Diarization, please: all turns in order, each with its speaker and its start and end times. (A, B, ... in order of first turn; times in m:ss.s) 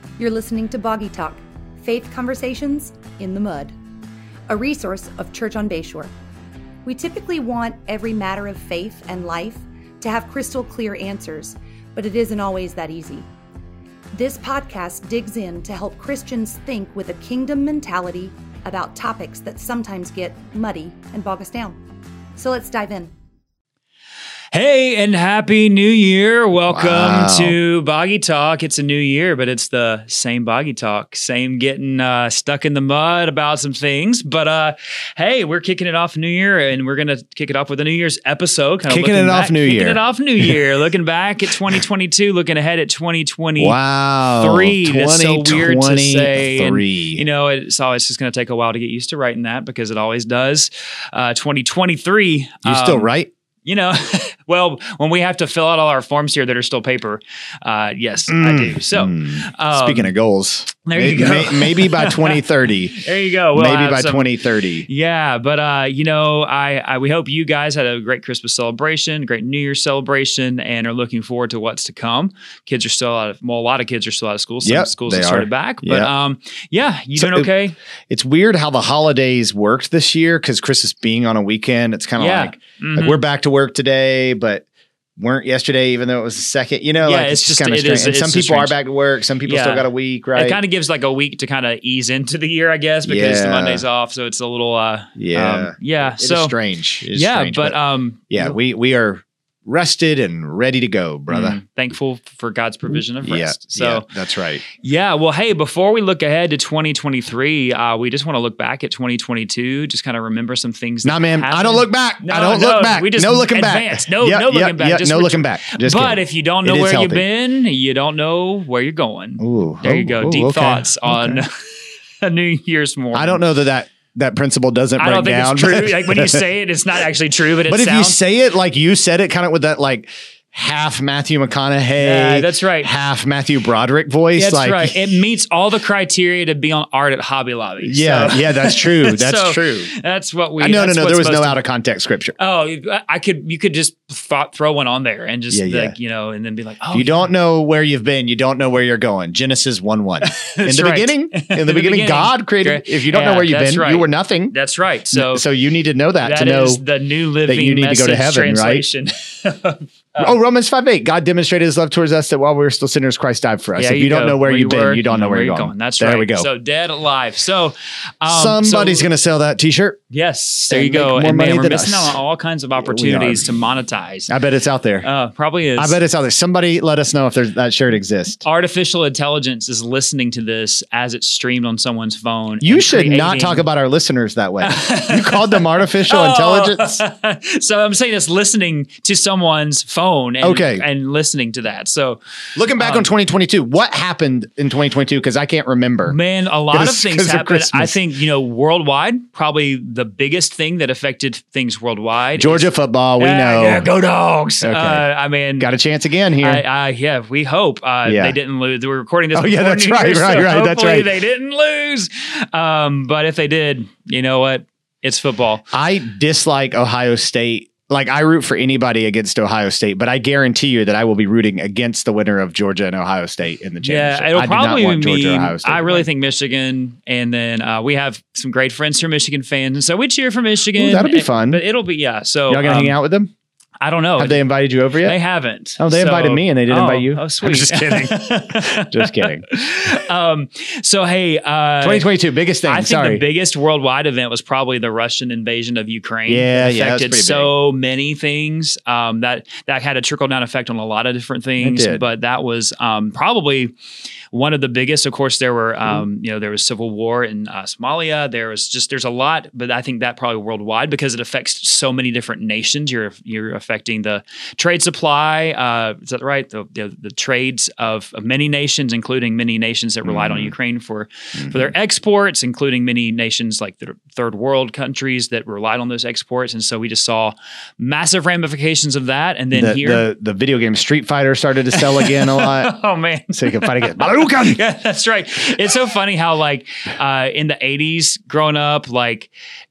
0:00.2-0:03.8 A
0:04.5-0:06.1 A
0:06.8-0:13.3 A
0:14.1-0:21.8 A
0:22.4-0:23.1 A
0:24.5-0:43.8 B
0:26.7-0:27.6 C
0:38.9-0:40.6 C
0:43.6-0:47.2 C
0:44.3-0:53.1 B
0:52.6-0:53.3 C
0:53.6-1:00.1 B
0:58.3-1:04.9 C
1:00.9-1:17.8 B
1:14.6-1:16.1 C
1:17.2-1:17.5 C
1:18.1-1:24.7 C
1:22.2-1:23.2 B
1:25.2-1:30.6 C
1:27.0-1:28.8 B
1:29.4-1:36.6 B
1:33.0-1:33.8 C
1:35.2-1:37.8 C
1:37.1-1:38.6 B
1:38.3-1:41.6 C
1:41.3-1:44.1 B
1:43.2-1:44.6 C
1:44.7-2:03.4 B
1:51.0-1:57.2 C
1:59.4-2:01.4 C
2:03.1-2:06.4 C
2:05.0-2:08.2 B
2:07.7-2:15.0 C
2:12.0-2:13.0 B
2:14.4-2:21.6 B
2:17.8-2:19.9 C
2:20.6-2:22.4 C
2:22.4-2:27.3 B
2:25.5-2:26.0 C
2:26.9-2:34.5 C
2:30.2-2:35.4 B
2:35.1-2:36.8 C
2:36.2-2:40.4 B
2:37.5-2:38.8 C
2:40.2-2:46.5 C
2:43.8-2:49.1 B
2:48.3-2:50.0 C
2:50.1-2:54.4 B
2:50.7-2:52.2 C
2:52.8-2:53.5 C
2:54.3-2:55.1 C
2:55.0-2:56.0 B
2:55.8-2:58.4 C
2:58.4-3:03.7 B
3:02.6-3:07.0 C
3:04.6-3:12.2 B
3:10.4-3:10.8 C
3:12.6-3:16.2 C
3:12.8-3:13.1 B
3:16.1-3:22.7 B
3:16.7-3:18.0 C
3:22.4-3:23.9 C
3:23.2-3:25.7 B
3:24.6-3:25.1 C
3:25.6-3:26.6 C
3:26.4-3:35.6 B
3:28.1-3:28.4 C
3:29.3-3:31.1 C
3:35.7-3:46.1 C
3:43.8-3:53.0 B
3:50.8-3:51.6 C
3:52.5-3:53.3 C
3:53.8-3:54.4 B
3:54.2-3:55.2 C
3:55.0-4:02.1 B
3:55.8-3:59.4 C
4:01.8-4:03.2 C
4:02.6-4:13.7 B
4:06.3-4:07.5 C
4:11.6-4:12.0 C
4:14.3-4:40.0 B
4:30.0-4:30.5 C
4:31.4-4:31.7 C
4:39.5-4:42.8 C
4:41.7-4:49.3 B
4:43.3-4:44.6 C